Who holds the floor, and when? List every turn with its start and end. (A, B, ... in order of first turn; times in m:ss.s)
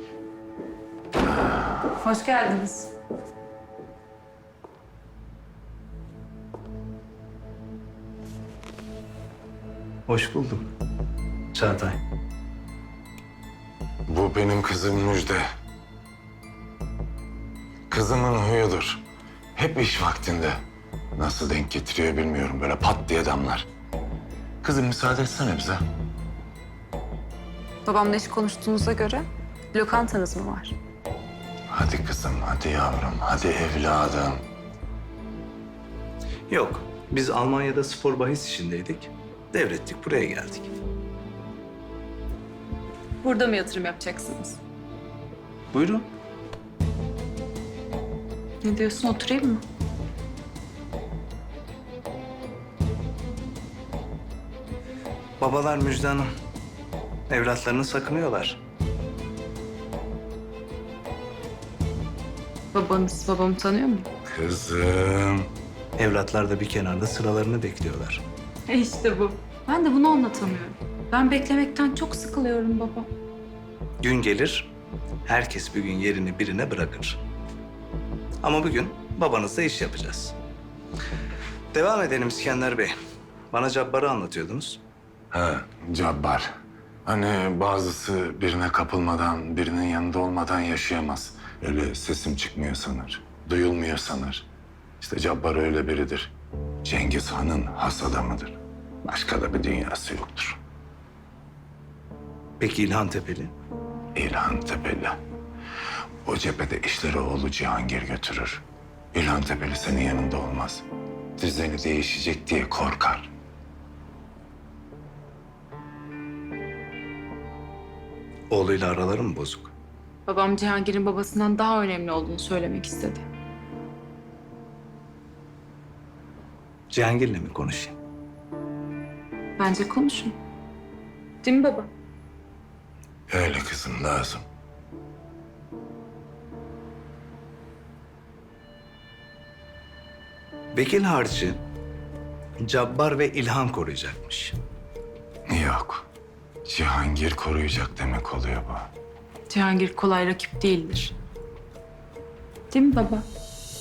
0:01.9-0:02.9 A
0:10.1-0:10.7 B
0:11.5-0:12.0 B
0:14.1-0:15.4 C
0:17.9-0:19.0 C
0:19.6-0:20.6 C
0:21.2-0:23.7 C
0:24.6-0:25.8 C
0:27.9-0:30.8 A
0:31.7-0:34.4 C
0:36.5-0:40.7 B
0:43.2-0:44.6 A
0:45.7-0:46.1 B
0:48.6-0:49.6 A
0:55.4-0:56.3 B
0:57.3-0:58.6 B
1:02.7-1:04.1 A
1:04.3-1:05.5 C
1:06.0-1:08.2 B
1:08.7-1:13.1 A
1:14.0-1:14.7 B
1:15.3-1:17.2 B
1:18.4-1:20.4 B
1:21.7-1:22.9 B
1:23.5-1:24.8 B
1:25.3-1:26.5 C
1:27.0-1:34.5 C
1:35.0-1:36.3 C
1:36.8-1:40.6 C
1:42.6-1:43.5 B
1:44.2-1:45.2 C
1:46.2-1:50.8 C
1:51.4-1:53.3 C
1:58.5-1:59.7 B
2:00.3-2:03.2 A
2:06.9-2:07.9 B
2:09.6-2:10.3 A
2:11.4-2:11.9 A
2:13.3-2:14.4 C
2:20.7-2:21.6 B
2:22.6-2:24.6 B
2:25.5-2:26.1 C
2:26.6-2:28.9 C
2:29.5-2:31.2 A
2:32.7-2:33.2 A